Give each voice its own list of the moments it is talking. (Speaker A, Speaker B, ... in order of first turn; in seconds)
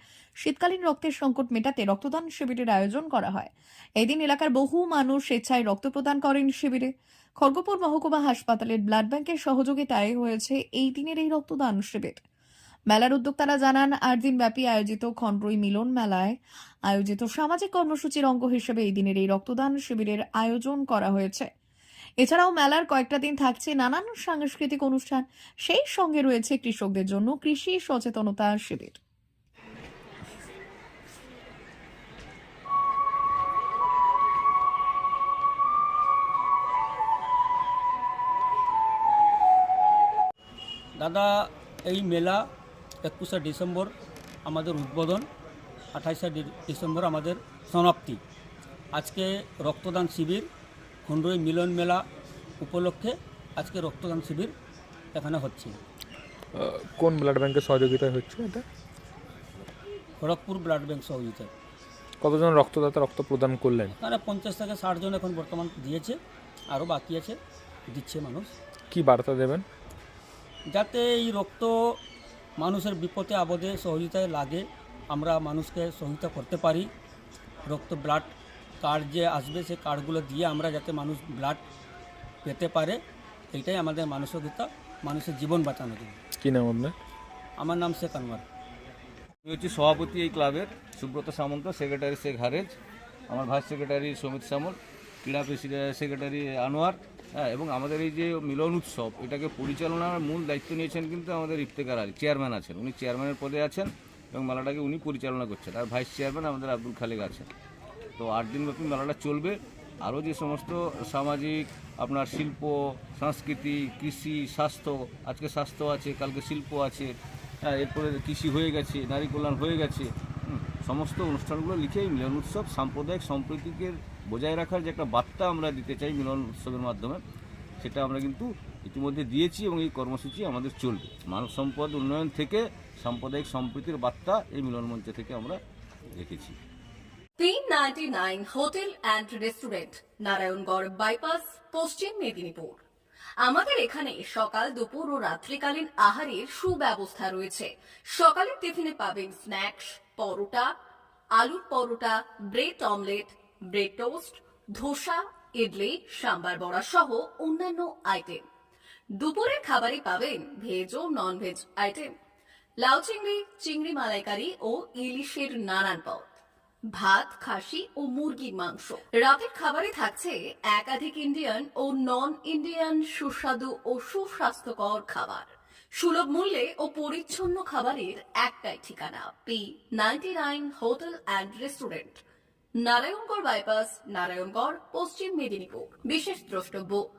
Speaker A: 0.4-12.2, 12.9-21.5, 22.2-29.0, 137.8-138.5
Speaker B: 41.0-42.5, 43.0-43.9, 44.5-45.3, 45.9-48.2, 48.9-50.5, 51.1-52.0, 52.6-54.5, 55.1-55.8, 60.2-61.5, 64.0-66.2, 66.7-68.5, 70.7-72.0, 72.6-76.9, 77.7-81.6, 82.4-83.0, 83.5-86.2, 87.6-88.4
Speaker C: 56.5-58.6, 62.2-64.0, 68.9-69.7, 86.4-87.0
Speaker D: 89.4-92.8, 93.3-107.5, 108.2-127.2, 127.8-135.6, 136.1-136.6
Speaker E: 137.4-142.8, 143.5-147.6, 148.2-150.6, 151.4-158.4, 159.2-162.1, 162.8-166.2, 167.0-175.4, 176.0-182.2, 182.8-186.9